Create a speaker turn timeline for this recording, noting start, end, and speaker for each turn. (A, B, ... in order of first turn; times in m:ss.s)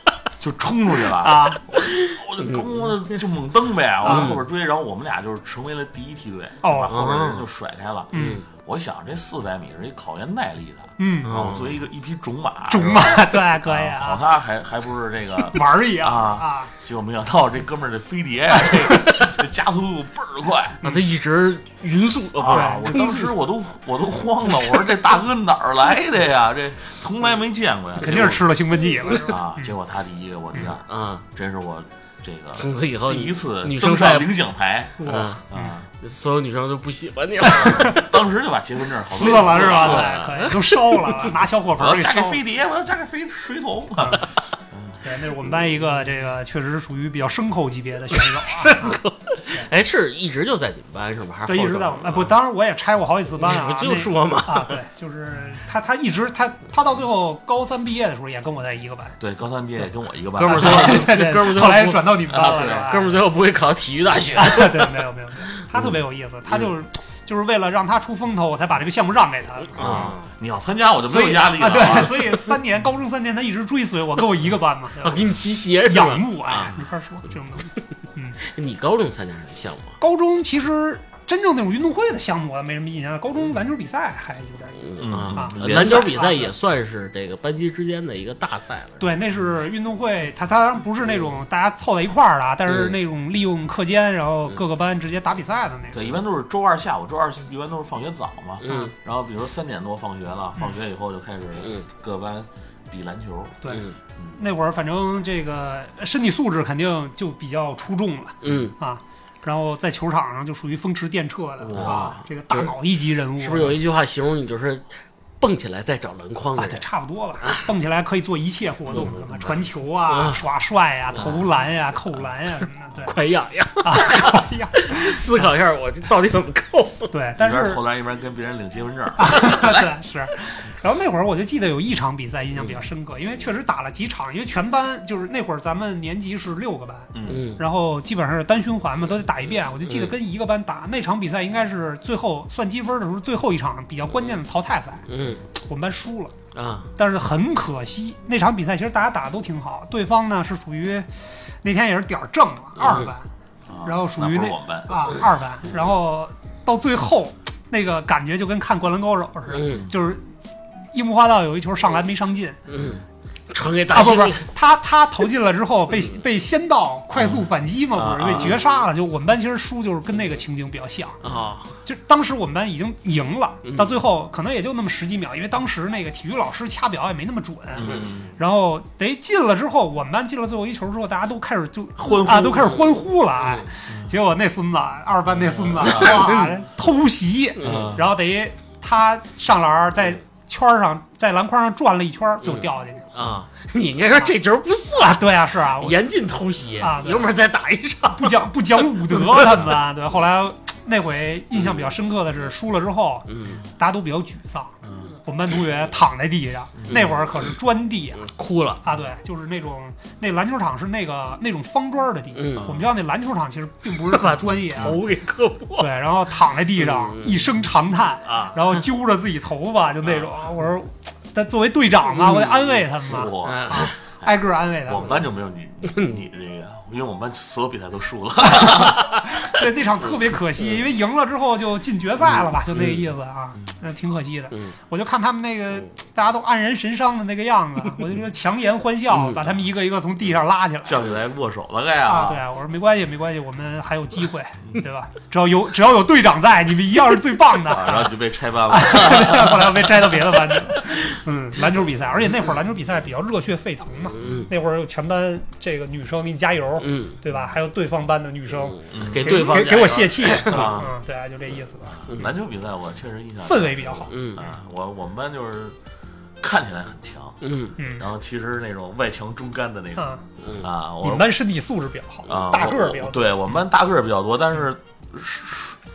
0:00.4-0:20.8 A
0:01.1-0:01.6 B
0:01.8-0:02.9 C
0:04.0-0:04.3 B
0:04.0-0:04.4 C
0:06.6-0:07.0 B
0:06.9-0:07.4 C
0:08.1-0:08.4 B
0:08.1-0:08.4 C
0:11.0-0:11.3 B
0:11.2-0:11.8 C
0:12.7-0:14.2 B
0:15.5-0:16.7 B
0:20.8-0:23.3 C
0:22.4-0:28.5 A
0:22.5-0:23.2 B
0:28.0-0:29.7 B
0:29.2-0:35.9 A
0:30.7-0:31.2 C
0:32.5-0:34.4 C
0:35.0-0:35.6 B
0:35.0-0:35.4 C
0:36.0-0:38.0 C
0:37.4-0:38.0 B
0:37.6-0:40.2 A
0:39.1-0:42.4 B
0:39.2-0:41.3 C
0:41.8-0:45.0 A
0:44.0-0:44.2 B
0:45.0-0:49.0 B
0:48.2-0:52.3 C
0:51.4-0:59.2 B
0:53.4-0:54.8 C
0:59.2-1:01.1 A
1:00.4-1:05.0 C
1:00.4-1:03.2 B
1:02.3-1:02.9 A
1:04.3-1:10.1 B
1:09.8-1:10.2 C
1:09.8-1:12.3 A
1:11.1-1:15.2 B
1:15.0-1:16.8 C
1:15.8-1:18.4 B
1:18.4-1:20.0 C
1:20.0-1:26.5 B
1:24.8-1:29.0 C
1:25.0-1:26.1 A
1:29.0-1:36.1 B
1:32.7-1:32.9 C
1:35.9-1:44.4 A
1:38.6-1:38.9 C
1:38.7-1:38.9 B
1:41.6-1:41.9 C
1:43.7-1:43.9 C
1:44.4-1:53.8 B
1:48.4-1:48.7 C
1:51.7-1:52.1 A
1:51.7-1:52.8 C
1:53.4-1:56.8 C
1:56.6-2:03.2 B
1:57.4-1:57.7 C
1:58.9-1:59.2 C
1:58.9-1:59.5 A
2:00.1-2:00.4 C
2:03.0-2:07.1 C
2:03.8-2:05.5 B
2:07.1-2:07.8 B
2:07.4-2:09.9 A
2:09.2-2:26.3 B
2:17.1-2:17.5 A
2:17.2-2:17.6 C
2:19.8-2:20.1 C
2:25.1-2:25.4 C
2:26.5-2:26.9 C
2:27.0-2:31.1 B
2:31.6-2:33.3 B
2:32.8-2:33.1 C
2:33.7-2:35.2 A
2:33.8-2:40.2 B
2:39.5-2:39.8 C
2:40.9-2:42.6 B
2:42.7-2:44.5 C
2:43.9-2:51.2 B
2:48.0-2:48.6 A
2:48.3-2:48.6 C
2:51.2-2:51.7 C
2:51.8-3:13.1 B
2:53.6-2:54.0 C
2:57.8-2:58.3 A
3:02.0-3:02.8 A
3:03.4-3:03.6 C
3:05.5-3:06.2 A
3:05.8-3:06.5 C
3:07.6-3:07.9 C
3:07.6-3:08.0 A
3:12.4-3:18.5 C
3:15.0-3:16.0 B
3:16.8-3:17.3 B
3:18.1-3:28.2 B
3:19.0-3:19.6 C
3:23.3-3:23.6 C
3:24.8-3:25.1 A
3:26.8-3:27.0 A
3:26.9-3:27.4 C
3:28.2-3:28.8 C
3:28.8-3:35.0 B
3:32.3-3:32.7 C
3:32.6-3:32.9 A
3:34.0-3:35.9 C
3:35.8-3:45.2 B
3:36.8-3:37.4 C
3:38.2-3:38.8 C
3:42.1-3:42.8 C
3:43.0-3:44.3 A
3:43.4-3:44.0 C
3:44.8-3:49.2 A
3:45.8-3:46.2 C
3:48.5-4:01.0 B
3:52.7-3:53.1 C
3:59.1-3:59.4 C
4:00.8-4:02.4 A
4:02.0-4:08.1 B
4:07.7-4:10.1 A
4:08.7-4:22.0 B
4:14.1-4:14.5 C
4:16.8-4:17.2 C
4:18.6-4:20.8 C
4:18.9-4:19.5 A
4:20.4-4:20.9 A
4:21.9-4:25.8 A
4:23.4-4:24.1 B
4:24.1-4:24.4 C
4:26.4-4:27.4 A
4:27.4-4:27.8 C
4:27.8-4:28.0 B
4:27.9-4:31.3 A
4:30.0-4:30.2 B
4:30.4-4:30.7 C
4:31.0-4:33.4 B
4:32.3-4:35.8 A